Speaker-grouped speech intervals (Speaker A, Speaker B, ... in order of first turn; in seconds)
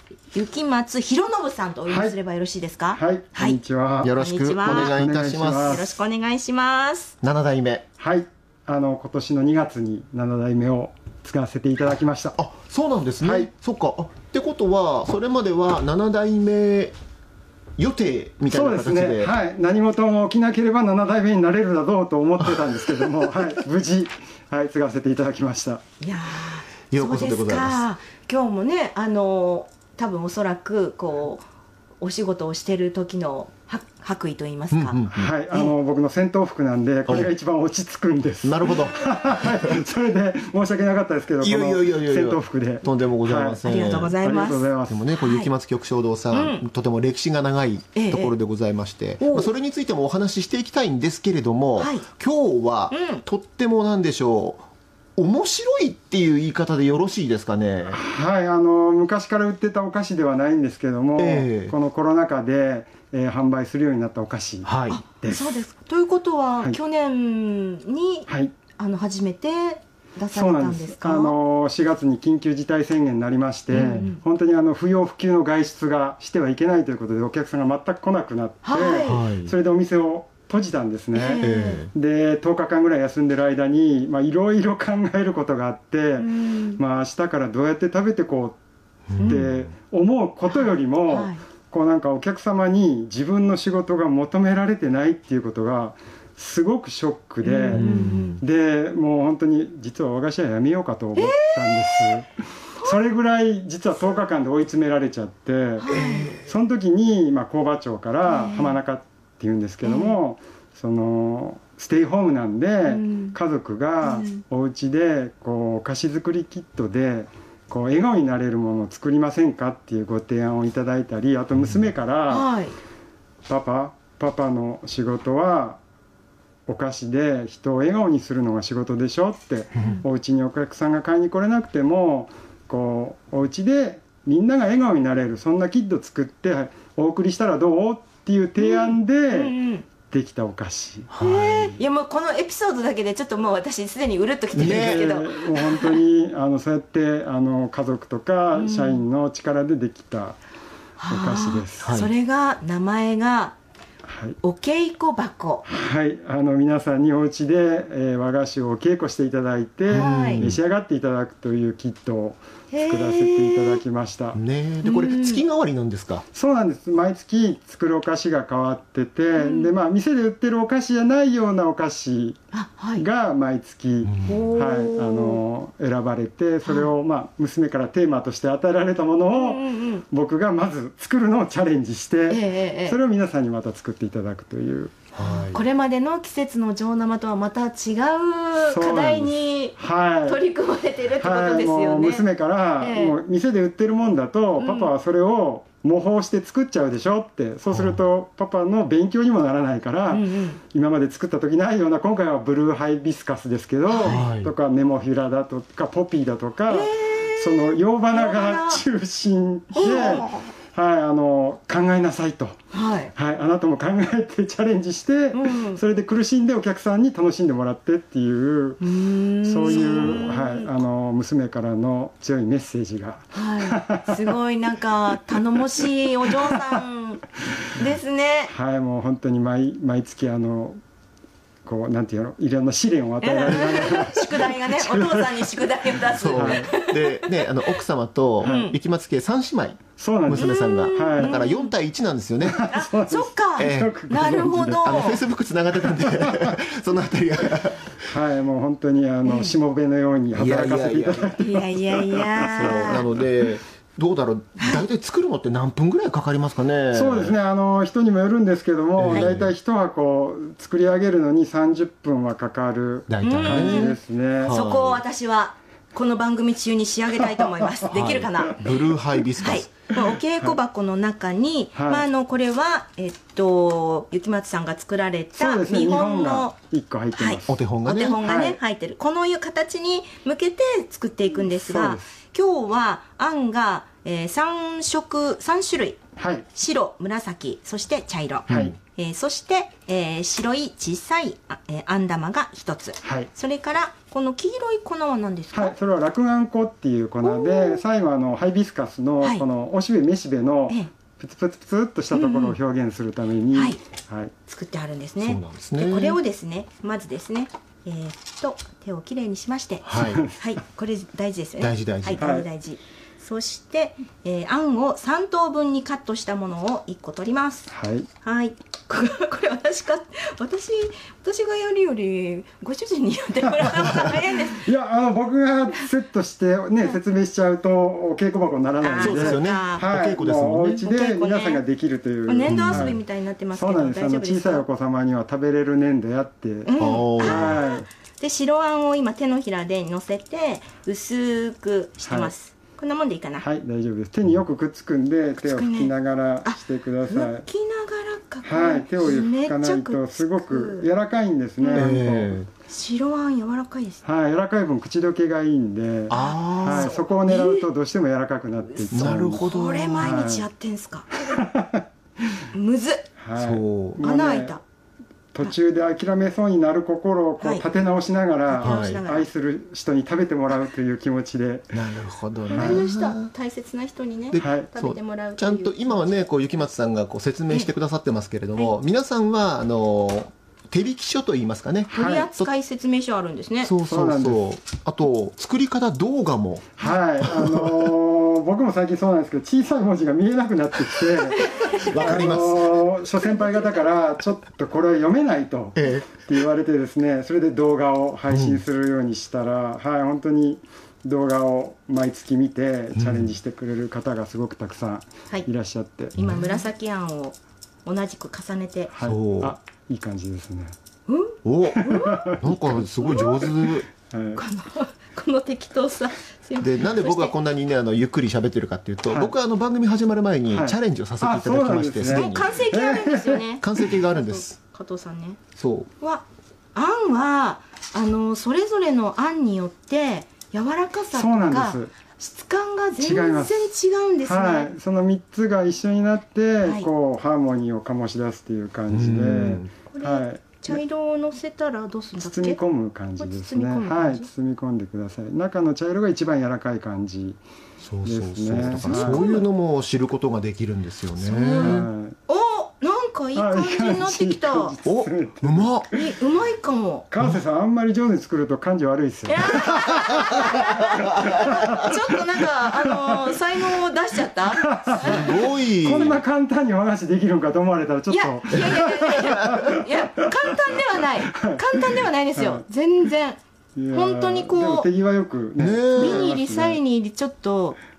Speaker A: 0.3-5.0, 5.6-7.1, 26.0-31.4, 32.0-35.7, 43.6-45.5, 46.3-46.6, 47.9-48.4, 49.2-49.5, 51.8-52.1, 52.9-53.2, 64.9-71.4, 73.7-74.2, 78.6-79.3, 81.1-81.8, 86.2-86.8, 89.2-89.5, 90.5-91.4, 97.4-98.4, 101.2-102.2, 105.8-106.4, 108.2-108.8, 109.8-110.2, 112.8-113.3, 114.0-114.4, 122.3-122.8, 138.6-139.8, 141.2-146.0, 148.5-149.0, 151.0-153.6, 154.4-155.7, 159.9-160.5, 162.7-163.8, 164.8-165.4, 169.3-169.7, 172.5-173.1, 174.2-175.4, 176.6-176.9, 179.3-180.0, 182.3-183.0, 185.2-192.2, 192.8-193.2, 194.6-194.9, 200.1-200.6, 203.9-204.3, 206.7-208.8, 209.7-210.5, 212.7-213.1, 215.3-215.8, 218.8-220.8, 223.3-228.5, 233.2-237.8, 238.4-238.7, 240.4-241.7, 242.6-245.2, 249.2-249.5, 251.3-253.1, 254.6-254.8, 263.2-268.7, 269.4-276.6, 277.1-286.0, 286.5-295.8, 297.2-297.8, 302.1-302.6, 303.5-303.8, 304.5-317.7, 318.2-324.7, 328.8-329.9, 330.8-331.6, 332.3-334.7, 336.6-343.5, 345.4-345.9, 346.4-350.9, 351.6-352.0, 352.7-354.0, 356.1-357.7, 358.6-361.2, 362.5-363.1, 364.0-364.6, 368.5-369.3, 372.5-376.1, 381.9-383.8, 391.3-392.4, 393.0-394.2, 406.2-408.9, 411.1-412.3, 413.0-413.5, 414.3-417.4, 422.1-425.4, 426.0-434.7, 436.6-436.9, 439.9-442.6, 443.2-444.3, 448.8-449.5, 451.2-454.8, 455.9-457.1, 459.3-466.2, 468.1-473.4, 473.9-474.9, 476.0-477.8
Speaker B: 1.9-2.2, 2.9-5.9, 8.0-12.4, 13.2-13.5, 18.5-25.8, 35.1-45.1, 57.9-65.6, 68.3-68.5, 70.3-88.6, 89.2-102.3, 102.8-122.5, 123.5-125.8, 126.7-139.5, 140.1-141.8, 144.6-150.4, 151.1-151.9, 154.1-154.4, 155.7-164.4, 166.3-172.4, 173.0-185.1, 188.6-190.4, 191.2-212.6, 213.1-218.8, 219.4-224.3, 228.5-230.8, 231.7-234.6, 236.3-236.7, 238.4-238.7, 240.0-241.4, 242.4-245.1, 246.2-246.5, 248.1-253.1, 256.9-264.6, 271.8-272.1, 275.4-277.6, 278.2-278.6, 281.4-282.1, 286.2-286.4, 288.5-288.8, 293.0-293.3, 295.5-304.3, 310.0-310.4, 312.2-312.5, 317.7-318.1, 324.5-333.0, 333.5-337.9, 342.0-342.3, 343.4-347.5, 348.4-352.4, 354.0-360.5, 361.3-361.8, 363.2-364.6, 365.3-371.8, 372.5-372.9, 374.4-374.7, 381.9-382.3, 383.8-384.5, 386.8-406.2, 408.9-410.7, 411.9-413.6, 414.1-414.4, 419.1-419.3, 420.5-423.4, 431.1-431.9, 433.0-440.8, 442.2-447.4, 448.0-449.3, 451.6-452.1, 453.3-456.1, 457.1-460.8, 461.3-462.0, 462.7-463.4, 464.6-470.6, 471.3-472.6, 473.8-476.8
Speaker C: 4.0-5.9, 7.2-7.8, 12.4-17.0, 17.8-19.3, 26.9-27.9, 34.7-35.3, 37.1-37.3, 38.4-39.6, 41.4-44.2, 44.9-54.6, 55.2-58.0, 61.2-61.7, 64.7-65.0, 73.7-74.1, 79.0-79.5, 81.4-81.9, 89.1-89.6, 97.7-98.4, 105.9-106.4, 141.1-141.5, 144.6-145.1, 151.8-152.1, 159.9-160.6, 164.3-166.2, 174.0-174.4, 185.2-185.6, 197.7-198.0, 204.1-204.5, 219.9-220.3, 236.1-242.6, 243.6-244.0, 244.8-248.1, 250.3-251.4, 252.4-257.4, 259.0-259.5, 263.1-265.0, 267.9-269.7, 277.5-278.2, 288.5-288.7, 305.2-306.2, 309.8-310.2, 311.6-312.3, 329.0-330.8, 332.5-332.9, 336.8-337.6, 351.7-352.5, 356.1-356.9, 358.9-360.2, 363.4-364.0, 368.6-369.0, 371.7-373.3, 374.3-382.5, 383.6-387.7, 391.6-392.9, 395.8-396.2, 398.3-398.6, 402.9-403.4, 406.1-406.5, 409.0-409.6, 411.4-413.9, 416.6-422.6, 423.6-424.6, 425.6-425.9, 438.9-439.7, 447.8-451.8, 454.9-455.9, 460.4-461.3, 465.0-466.2, 469.3-469.5, 475.6-476.3